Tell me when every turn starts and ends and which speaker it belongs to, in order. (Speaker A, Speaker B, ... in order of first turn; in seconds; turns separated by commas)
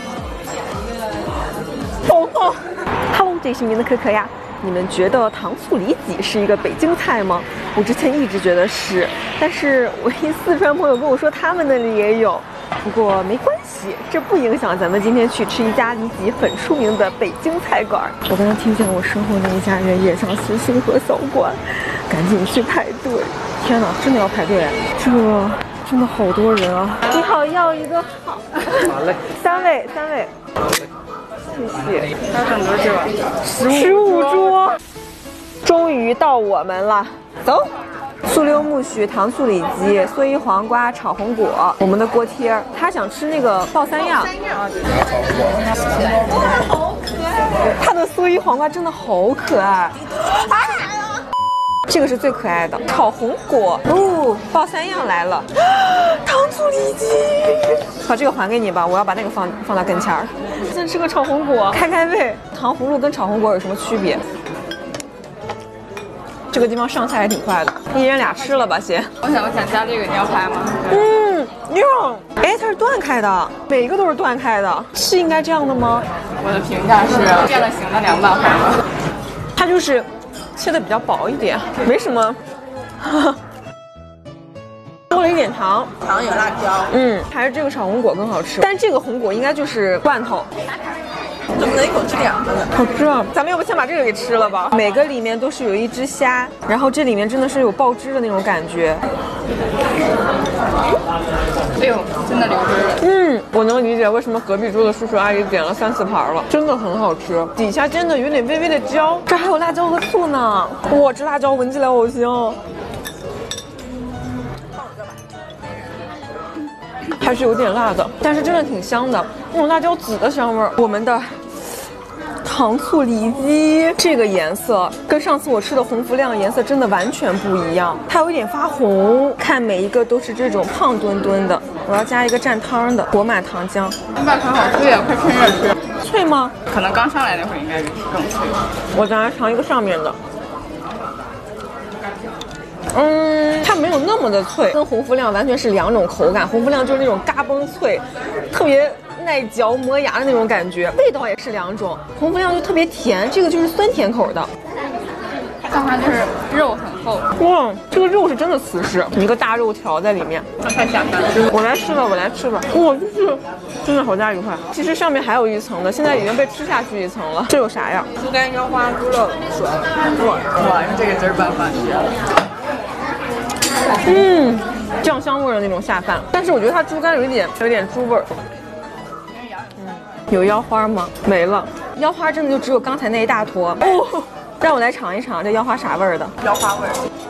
Speaker A: 2.0-30.3, Speaker A: 31.5-32.1, Speaker B: 32.3-34.5, Speaker A: 33.5-34.8, Speaker A: 35.6-44.4, Speaker A: 47.5-51.2, Speaker A: 51.9-64.2, Speaker A: 66.5-69.1, Speaker B: 69.2-71.0, Speaker A: 70.9-76.1, Speaker B: 76.4-78.8, Speaker A: 79.6-82.4, Speaker A: 83.0-83.4, Speaker A: 85.1-85.9, Speaker C: 86.1-86.9, Speaker A: 86.9-90.5, Speaker C: 91.6-92.7, Speaker A: 92.7-99.0, Speaker B: 101.8-103.0, Speaker A: 103.0-112.6, Speaker A: 117.2-121.4, Speaker A: 122.4-134.0, Speaker B: 134.2-135.8, Speaker A: 136.0-136.6, Speaker B: 136.7-138.7, Speaker A: 138.9-140.2, Speaker A: 142.9-154.5, Speaker B: 155.6-157.3, Speaker A: 157.4-160.5, Speaker B: 160.6-161.4, Speaker A: 161.5-168.1, Speaker B: 168.3-169.4, Speaker C: 168.3-169.6, Speaker C: 170.2-170.5, Speaker B: 170.6-172.1, Speaker A: 174.0-178.3, Speaker A: 179.8-186.3